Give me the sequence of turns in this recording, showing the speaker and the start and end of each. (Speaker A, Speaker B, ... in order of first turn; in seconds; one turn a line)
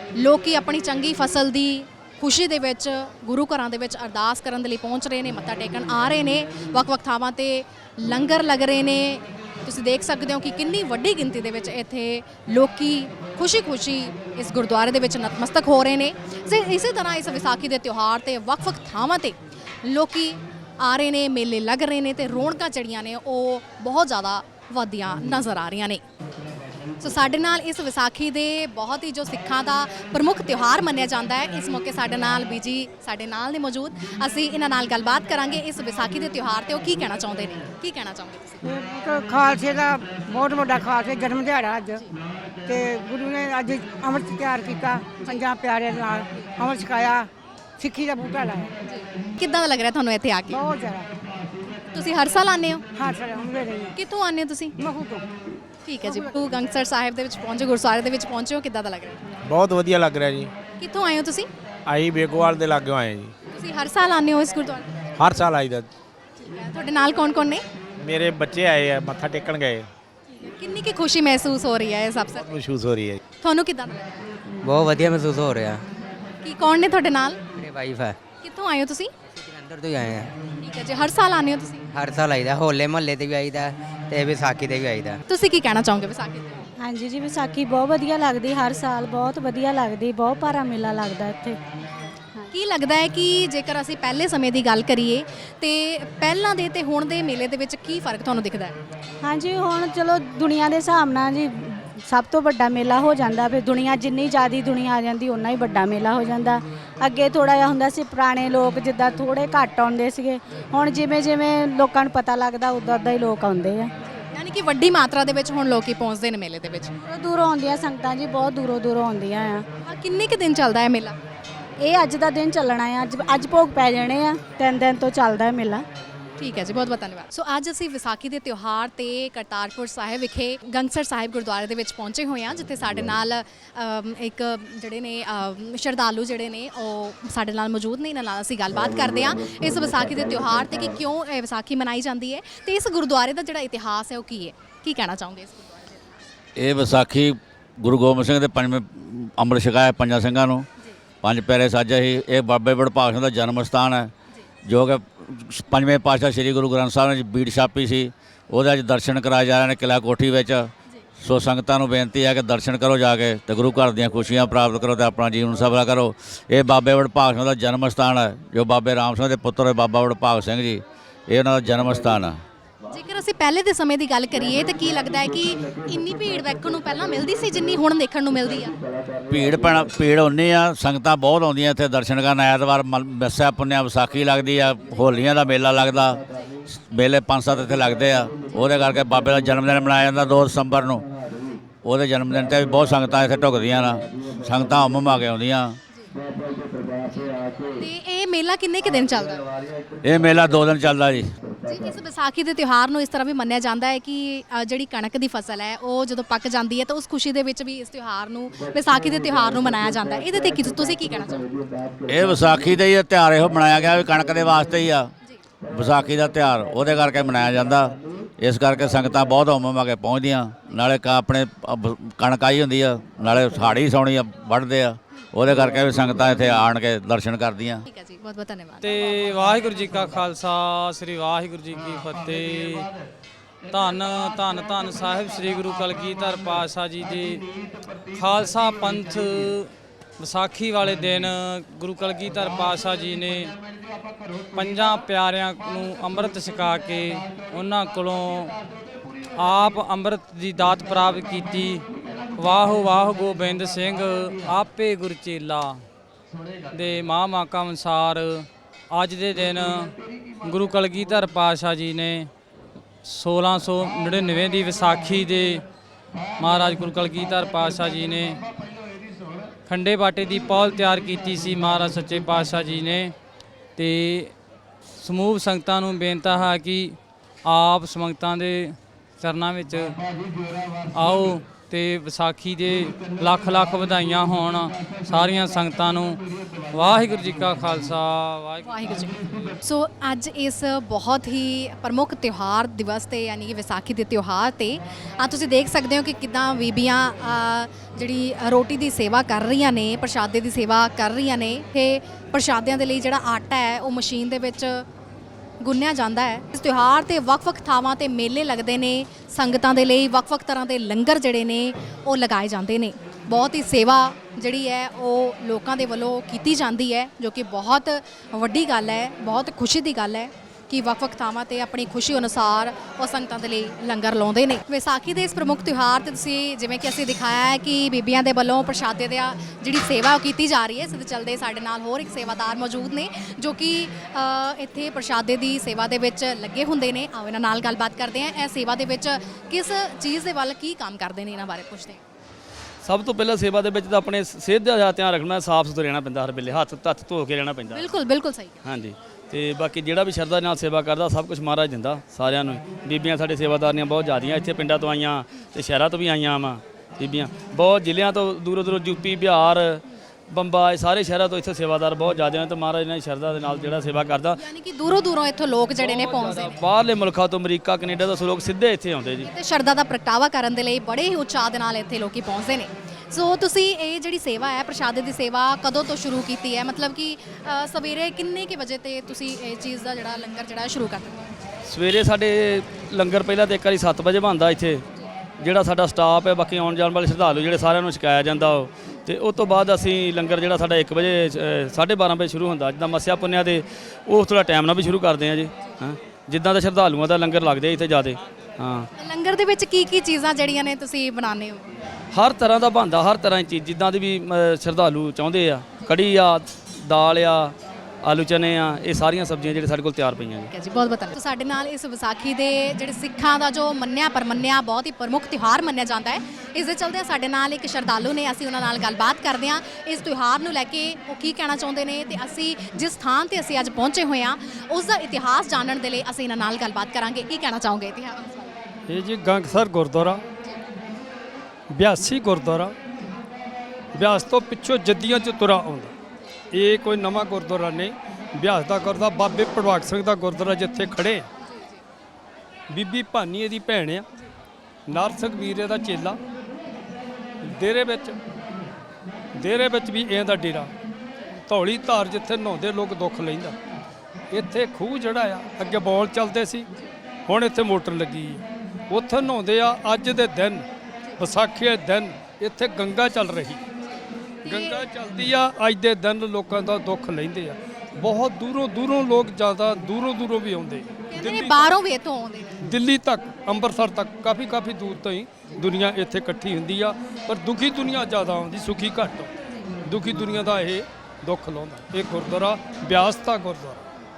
Speaker A: 0.2-26.0
Speaker A: 27.0-38.6
Speaker B: 38.6-42.0
Speaker B: 42.7-47.3
Speaker B: 47.8-48.7
Speaker A: 48.9-50.6
Speaker B: 50.5-51.1
Speaker A: 51.9-52.8
Speaker B: 53.0-53.9
Speaker A: 54.0-54.8
Speaker B: 54.8-55.2
Speaker A: 55.9-59.3
Speaker B: 56.0-56.3
Speaker C: 59.4-60.5
Speaker A: 60.8-61.5
Speaker C: 61.9-63.3
Speaker A: 63.5-64.9
Speaker C: 65.2-65.9
Speaker A: 66.4-67.6
Speaker C: 68.0-69.9
Speaker A: 70.3-72.5
Speaker C: 72.4-73.2
Speaker A: 73.4-74.1
Speaker D: 74.6-75.8
Speaker A: 76.4-77.4
Speaker D: 77.6-78.2
Speaker A: 78.4-79.1
Speaker D: 79.3-80.3
Speaker A: 80.6-81.9
Speaker D: 81.9-85.2
Speaker A: 85.3-86.7
Speaker E: 86.8-91.6
Speaker A: 92.5-98.8
Speaker E: 99.2-113.9
Speaker A: 114.2-116.9
Speaker E: 117.0-119.7
Speaker A: 119.8-121.2
Speaker E: 121.8-125.9
Speaker A: 126.4-146.2
Speaker F: 146.6-150.7
Speaker F: 151.2-154.1
Speaker F: 154.7-172.4
Speaker A: 172.9-178.8
Speaker F: 179.3-191.1
Speaker F: 191.8-195.8
Speaker A: 197.1-199.4
Speaker F: 200.0-201.3
Speaker A: 201.7-211.5
Speaker F: 212.1-215.1
Speaker F: 215.7-227.8
Speaker A: 227.9-229.0
Speaker G: 228.8-232.9
Speaker G: 233.7-237.4
Speaker G: 238.2-243.5
Speaker G: 244.6-248.5
Speaker G: 249.4-251.8
Speaker G: 252.4-255.8
Speaker G: 256.7-259.9
Speaker G: 260.4-262.3
Speaker G: 263.0-265.6
Speaker G: 266.4-268.4
Speaker G: 269.7-273.1
Speaker G: 273.8-274.3
Speaker G: 275.0-279.9
Speaker G: 281.0-286.2
Speaker G: 286.7-288.9
Speaker A: 288.6-304.9
Speaker A: 305.6-342.0
Speaker H: 342.8-347.9
Speaker A: 347.7-348.6
Speaker H: 348.6-364.4
Speaker A: 364.4-366.6
Speaker H: 365.8-369.3
Speaker A: 369.2-381.3
Speaker H: 381.6-384.8
Speaker H: 385.4-398.9
Speaker A: 399.0-401.7
Speaker H: 402.1-410.5
Speaker A: 410.5-428.6
Speaker I: 428.9-430.2
Speaker I: 431.7-432.8
Speaker I: 433.9-435.9
Speaker I: 436.5-441.3
Speaker I: 442.7-444.1
Speaker I: 444.9-446.2
Speaker I: 447.4-448.2
Speaker I: 449.4-450.7
Speaker I: 451.5-453.6
Speaker I: 454.3-456.7
Speaker I: 457.3-460.6
Speaker I: 461.2-463.6
Speaker A: 464.5-464.8
Speaker I: 464.5-471.7
Speaker A: 471.1-472.5
Speaker I: 472.6-479.3
Speaker I: 479.9-483.8